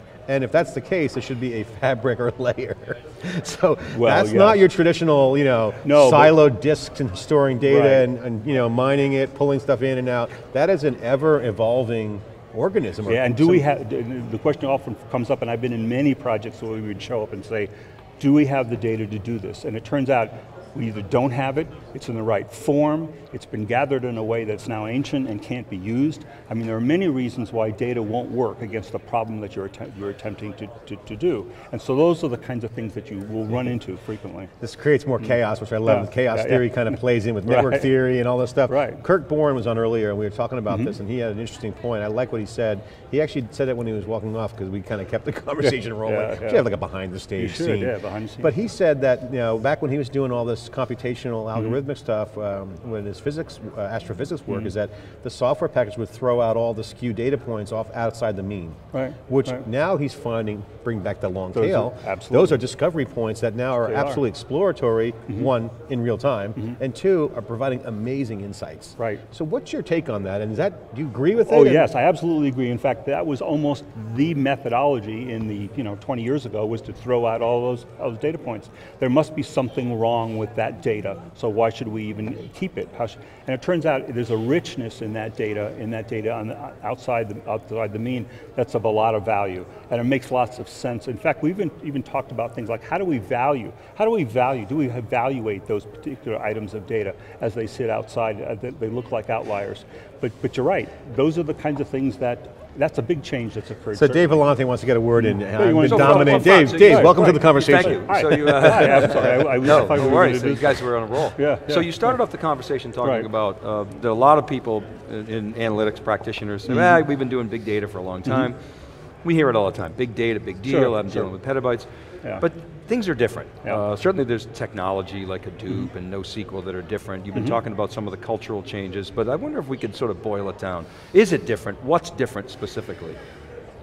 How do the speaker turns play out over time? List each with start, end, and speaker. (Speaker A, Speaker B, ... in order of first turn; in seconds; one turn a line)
Speaker A: 0.3-13.7
Speaker B: 3.9-4.6
Speaker B: 5.8-6.3
Speaker B: 7.6-8.1
Speaker B: 13.1-34.5
Speaker A: 34.6-71.9
Speaker B: 35.9-36.6
Speaker B: 37.5-37.9
Speaker B: 38.7-39.0
Speaker B: 40.7-40.9
Speaker B: 45.6-46.6
Speaker B: 47.4-48.5
Speaker B: 58.9-59.6
Speaker B: 61.5-62.6
Speaker B: 63.9-64.2
Speaker B: 71.5-104.4
Speaker A: 103.9-109.1
Speaker B: 105.2-110.8
Speaker C: 105.8-118.6
Speaker B: 111.3-112.0
Speaker B: 116.7-117.0
Speaker C: 119.2-121.9
Speaker B: 120.7-121.3
Speaker C: 122.4-133.2